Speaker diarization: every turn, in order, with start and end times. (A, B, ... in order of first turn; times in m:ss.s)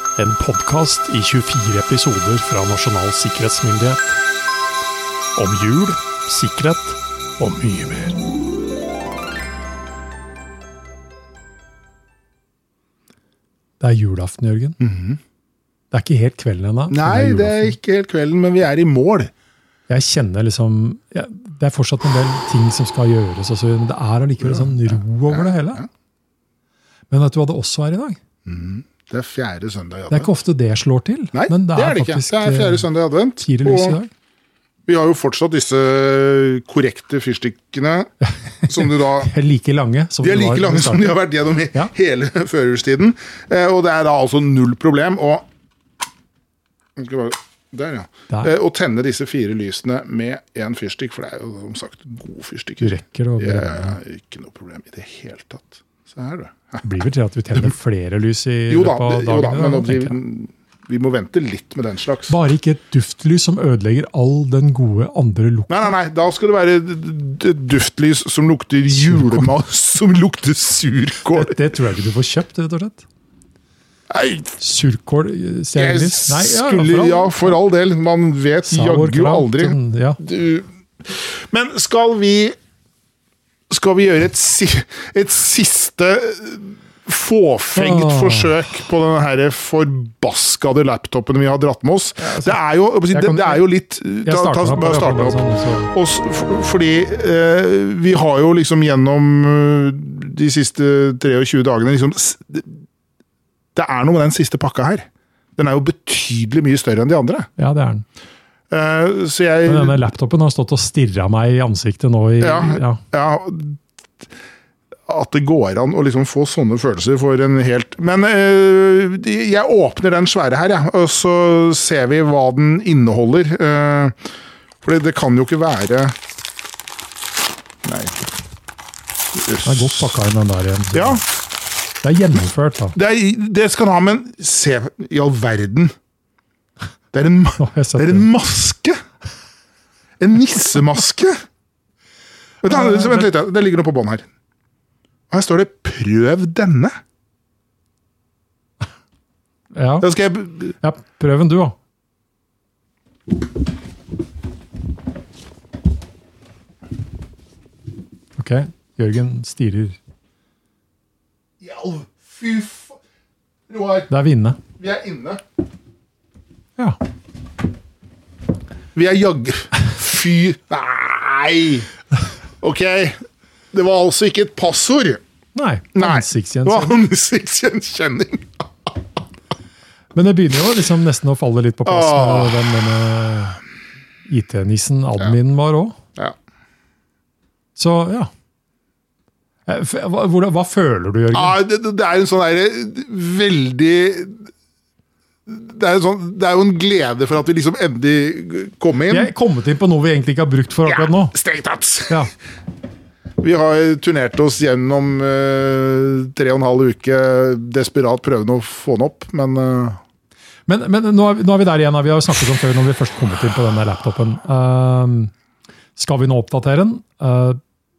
0:00.2-0:04.2 A
0:05.4-0:08.2 A
0:13.8-0:14.8 A
0:14.8-0:15.2 B
0:15.9-0:17.8 A
0:16.9-0:19.3 B
0:19.9-0:25.8 A
0:24.4-0:25.8 B
0:27.1-0:28.2 A
0:28.4-0:30.3 B
0:30.1-0:32.9 A
0:31.3-0:34.0 B
0:33.4-0:34.1 A
0:34.9-0:38.1 B
0:38.6-0:41.2 A
0:38.7-0:39.3 B
0:40.2-0:45.5 B
0:47.0-0:56.8 B
0:52.8-0:54.0 A
0:56.8-1:00.2 A
0:58.7-1:02.4 B
1:02.3-1:05.9 A
1:05.7-1:11.6 B
1:08.9-1:09.5 A
1:11.3-1:13.1 A
1:14.1-1:14.6 B
1:14.6-1:17.6 A
1:15.8-1:22.6 B
1:18.7-1:20.2 A
1:23.7-1:42.7 B
1:27.8-1:28.5 A
1:32.2-1:32.6 A
1:33.1-1:33.7 A
1:34.2-1:35.9 A
1:43.8-1:47.5 B
1:47.6-1:48.0 A
1:48.7-1:50.0 B
1:49.7-1:53.0 A
1:52.4-1:53.8 B
1:55.1-2:04.2 B
2:04.8-2:06.2 B
2:07.8-2:08.2 B
2:09.3-2:10.2 B
2:09.6-2:11.2 A
2:10.9-2:11.2 B
2:12.0-2:13.0 A
2:12.9-2:15.9 B
2:17.1-2:19.0 B
2:17.6-2:18.3 A
2:20.2-2:21.3 B
2:22.6-2:24.2 B
2:22.6-2:23.2 A
2:25.3-2:26.9 B
2:29.7-2:30.1 A
2:30.0-2:30.7 B
2:30.8-2:31.8 A
2:38.4-2:40.0 A
2:41.6-2:43.0 B
2:43.7-2:44.1 B
2:44.1-2:44.6 A
2:44.8-2:45.4 B
2:49.0-2:51.9 B
2:52.6-2:53.2 B
2:53.7-2:55.2 B
2:55.6-2:57.0 A
2:56.0-2:59.0 B
3:00.1-3:03.6 A
3:01.9-3:02.8 B
3:04.3-3:06.0 A
3:07.8-3:08.3 A
3:09.7-3:11.6 A
3:11.3-3:14.5 B
3:15.5-3:19.3 B
3:19.1-3:21.4 A
3:20.8-3:22.2 B
3:23.4-3:30.0 B
3:30.7-3:35.3 A
3:36.0-3:37.6 A